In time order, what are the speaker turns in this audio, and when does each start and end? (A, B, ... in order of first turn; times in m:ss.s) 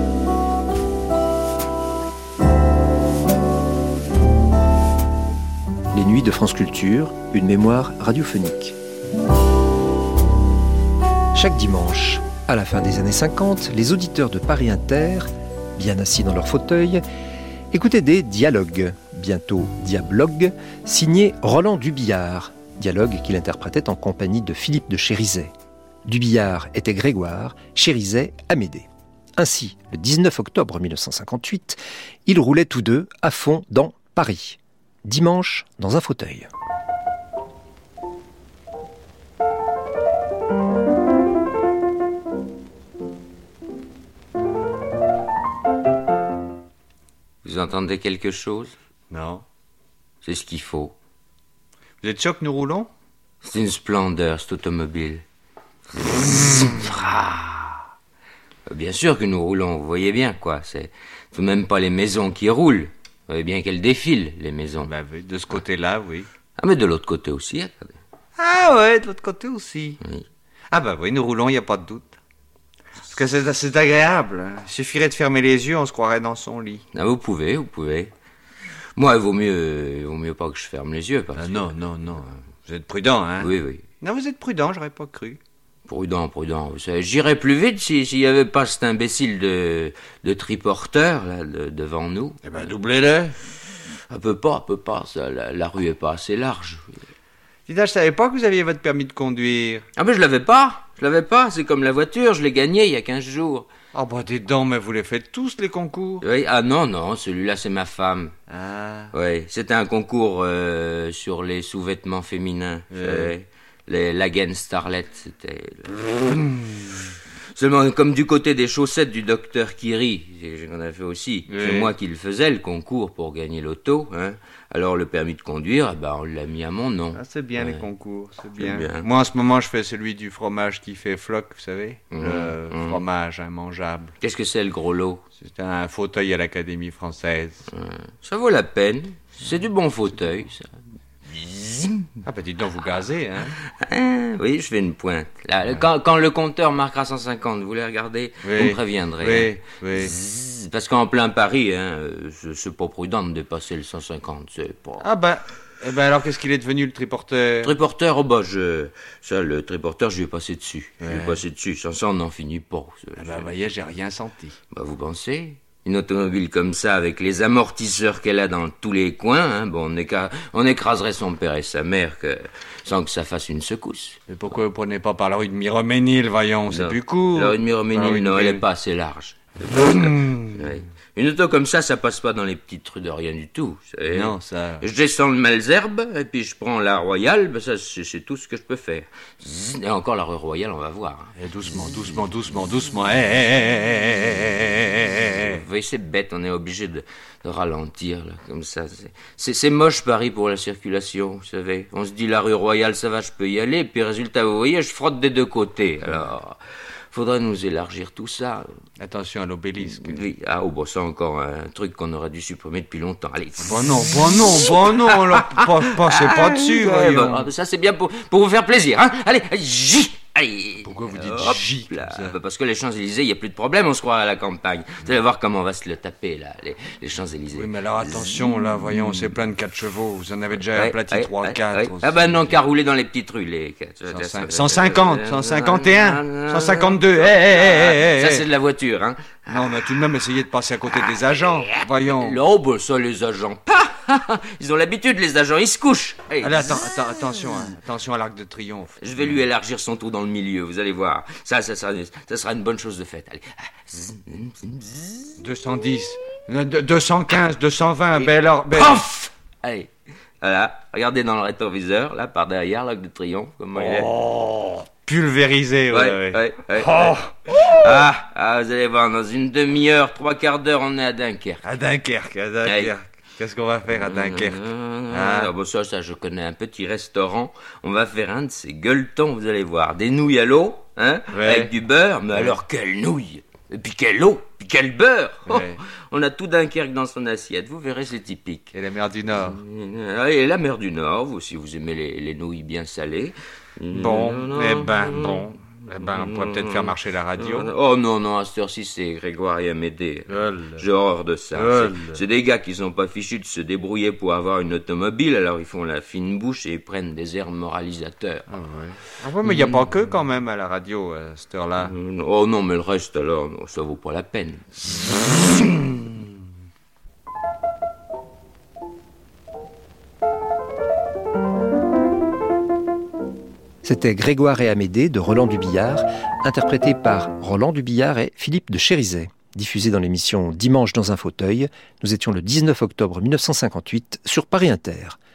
0:05.9-0:08.8 A
0:11.3-0:17.0 A
0:17.7-0:25.5 A
0:26.0-0:36.5 A
0:47.4-0:48.7 B
0:49.1-0:49.4 C
0:50.2-0:50.9 B
0:52.0-0:52.9 C
0:53.4-0:55.2 B
0:56.0-0:57.8 B
0:58.7-1:04.9 B
1:04.8-1:06.3 C
1:06.6-1:08.0 B
1:08.4-1:10.0 C
1:10.0-1:10.3 B
1:10.7-1:12.2 C
1:13.1-1:16.8 C
1:16.9-1:18.1 B
1:19.0-1:21.7 B
1:21.3-1:23.5 C
1:23.4-1:23.8 B
1:24.0-1:25.4 C
1:25.9-1:32.4 B
1:32.4-1:33.4 C
1:34.1-1:36.8 B
1:37.7-1:39.8 C
1:40.0-1:43.7 B
1:43.9-1:46.2 C
1:46.2-1:48.3 B
1:48.5-1:49.1 C
1:49.1-1:57.0 B
1:52.9-1:53.3 C
1:57.5-2:07.8 B
2:01.5-2:01.9 C
2:07.2-2:14.1 C
2:08.6-2:09.1 B
2:12.1-2:13.0 B
2:14.2-2:15.2 B
2:15.4-2:17.6 C
2:17.7-2:20.7 B
2:21.3-2:22.1 B
2:22.2-2:23.5 C
2:23.6-2:35.0 B
2:28.4-2:30.1 C
2:35.0-2:37.8 C
2:37.6-2:43.5 B
2:41.0-2:41.4 C
2:43.2-2:44.6 C
2:44.7-2:54.2 B
2:54.3-2:58.6 C
2:56.7-3:11.3 B
2:59.8-3:00.8 C
3:04.1-3:04.8 C
3:11.4-3:15.6 C
3:15.3-3:26.6 B
3:27.1-3:28.7 B
3:29.0-3:30.2 C
3:29.8-3:49.3 B
3:33.6-3:37.5 C
3:40.8-3:42.4 C
3:47.6-3:52.5 C
3:50.7-3:59.9 B
3:54.1-3:58.4 C
3:59.5-4:02.4 C
4:01.1-4:06.8 B
4:06.4-4:09.3 C
4:09.0-4:15.4 B
4:15.4-4:19.0 C
4:18.1-4:24.1 B
4:23.8-4:28.1 C
4:25.9-4:31.6 B
4:31.6-4:35.5 C
4:32.6-4:32.9 B
4:33.9-4:48.7 B
4:41.3-4:41.7 C
4:45.4-4:45.8 C
4:48.7-4:49.6 C
4:49.4-4:55.4 B
4:53.9-4:57.7 C
4:56.0-5:08.5 B
5:00.3-5:00.8 C
5:01.5-5:02.2 C
5:08.5-5:11.9 C
5:09.4-5:09.9 B
5:11.8-5:14.8 B
5:15.0-5:16.3 C
5:23.8-5:35.2 A